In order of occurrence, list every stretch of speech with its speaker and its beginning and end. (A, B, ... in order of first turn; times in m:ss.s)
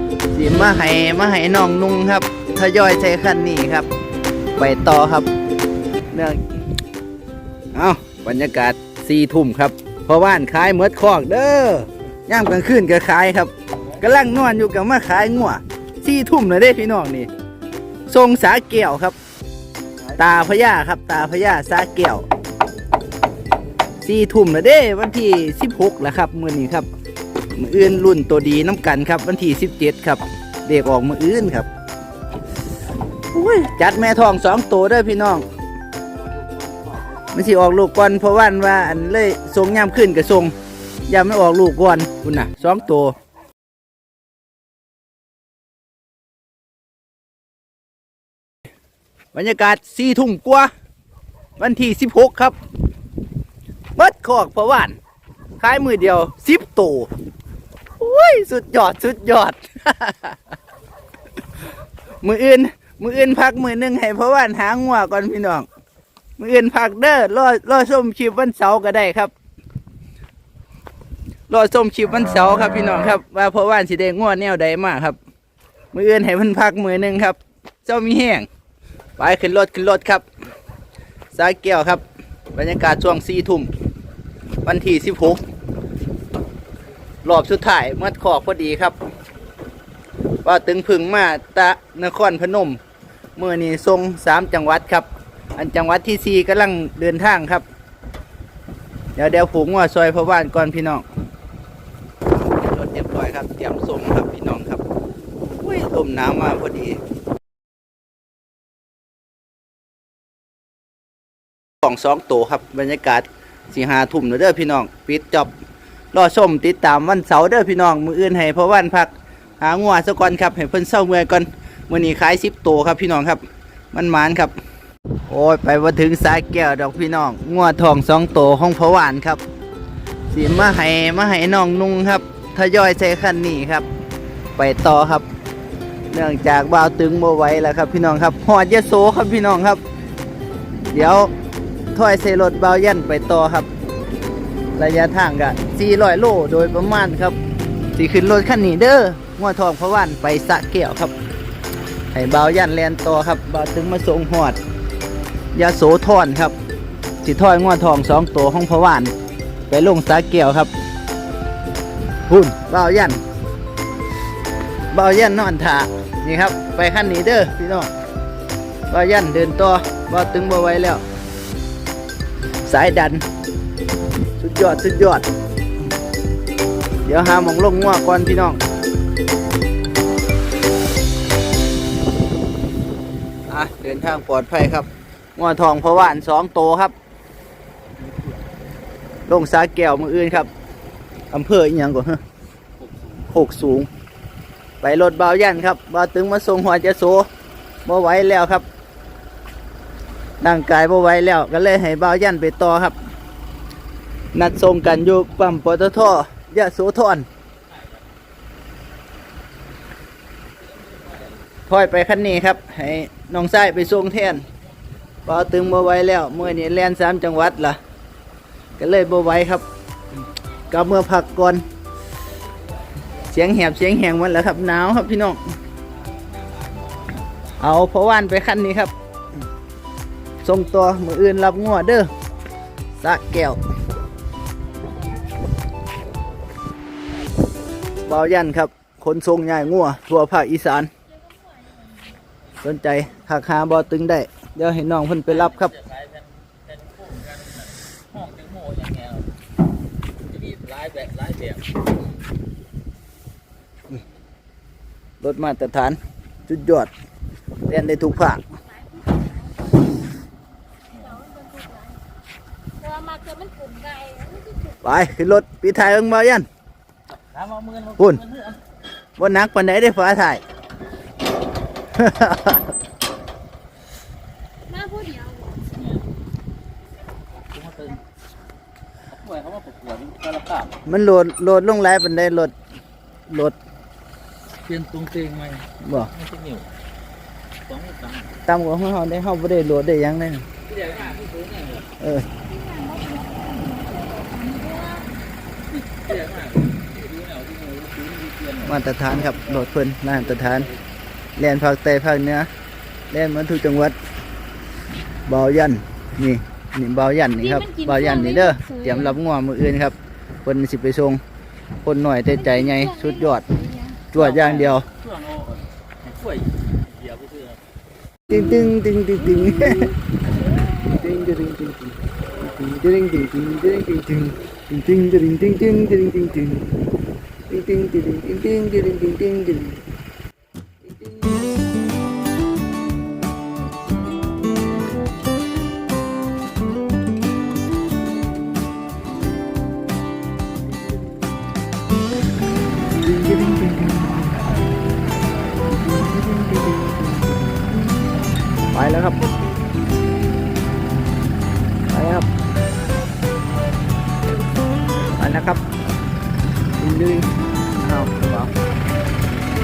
0:00.3-0:03.9 A
0:04.6-0:05.3 A
0:06.1-0:06.4 A
0:07.7-0:17.3 A
0:18.1-0:19.2 A
0:20.2-0:22.2 A
0:24.0-0:26.9 A
0:27.6-0:31.7 A
0:33.3-0:35.4 A
0:37.3-0:40.5 A
0:41.1-0:43.2 A
0:49.3-0:50.7 A
0:51.6-0:52.6 A
0:54.0-0:55.0 A
0:55.6-0:57.1 A
0:58.0-1:00.4 A
1:02.2-1:05.7 A
1:06.4-1:09.3 A
1:11.5-1:15.2 A
1:15.9-1:18.5 A
1:19.2-1:20.2 A
1:21.3-1:22.0 A
1:22.6-1:23.7 A
1:24.6-1:25.4 A
1:27.2-1:29.0 A
1:30.4-1:32.8 A
1:33.4-1:37.6 A
1:39.2-1:41.0 A
1:42.3-1:44.8 A
1:45.4-1:47.0 A
1:51.8-1:55.5 A
1:56.1-2:03.4 A
2:03.9-2:04.6 A
2:05.3-2:09.4 A
2:10.3-2:13.9 A
2:14.6-2:15.3 A
2:16.1-2:19.8 A
2:20.9-2:21.3 A
2:21.9-2:23.7 A
2:24.8-2:27.4 A
2:28.0-2:31.1 A
2:32.1-2:34.6 A
2:35.5-2:36.6 A
2:37.2-2:39.1 A
2:39.7-2:40.7 A
2:42.3-2:43.2 A
2:44.9-2:47.9 A
2:48.9-2:51.0 A
2:52.6-2:53.3 A
2:54.4-2:55.3 A
2:57.0-2:58.6 A
3:03.5-3:06.9 A
3:09.3-3:10.5 A
3:11.3-3:12.2 A
3:13.3-3:13.9 A
3:14.8-3:17.3 A
3:17.8-3:18.6 A
3:20.4-3:23.0 A
3:24.3-3:27.3 A
3:31.7-3:34.4 A
3:35.3-3:37.8 A
3:38.8-3:39.7 A
3:40.7-3:41.6 A
3:43.3-3:45.4 A
3:46.6-3:47.3 B
3:47.6-3:48.9 A
3:50.4-3:52.1 A
3:53.0-3:53.6 A
3:58.1-4:00.9 A
4:01.1-4:02.2 C
4:02.6-4:05.8 A
4:05.3-4:09.3 B
4:10.2-4:11.7 B
4:15.2-4:16.9 A
4:17.7-4:18.4 A
4:18.7-4:20.0 C
4:20.9-4:21.2 B
4:21.0-4:22.0 C
4:22.8-4:24.8 C
4:24.8-4:26.5 A
4:27.2-4:28.6 B
4:28.0-4:28.2 A
4:29.2-4:30.4 A
4:32.0-4:32.7 A
4:34.7-4:35.8 C
4:35.7-4:36.0 B
4:37.5-4:38.0 B
4:39.1-4:40.8 B
4:40.9-4:42.5 A
4:43.3-4:43.6 A
4:44.6-4:46.7 B
4:45.8-4:46.1 A
4:47.7-4:48.4 B
4:48.5-4:50.5 A
4:50.7-4:51.9 B
4:52.0-4:52.3 A
4:52.5-4:55.1 C
4:55.7-4:58.7 B
4:58.6-5:00.7 A
5:00.5-5:00.8 B
5:01.4-5:02.5 A
5:03.1-5:04.0 A
5:05.3-5:11.2 A
5:07.5-5:09.0 C
5:11.8-5:13.5 A
5:12.4-5:14.1 C
5:14.1-5:14.9 A
5:14.2-5:17.6 B
5:18.3-5:20.0 A
5:19.4-5:21.0 C
5:20.9-5:26.7 A
5:27.5-5:29.8 A
5:30.9-5:31.3 A
5:43.0-5:44.5 A
5:45.8-5:47.6 A
5:48.7-5:49.3 A
5:51.9-5:52.3 A
5:55.2-5:55.6 A
5:56.8-5:58.5 A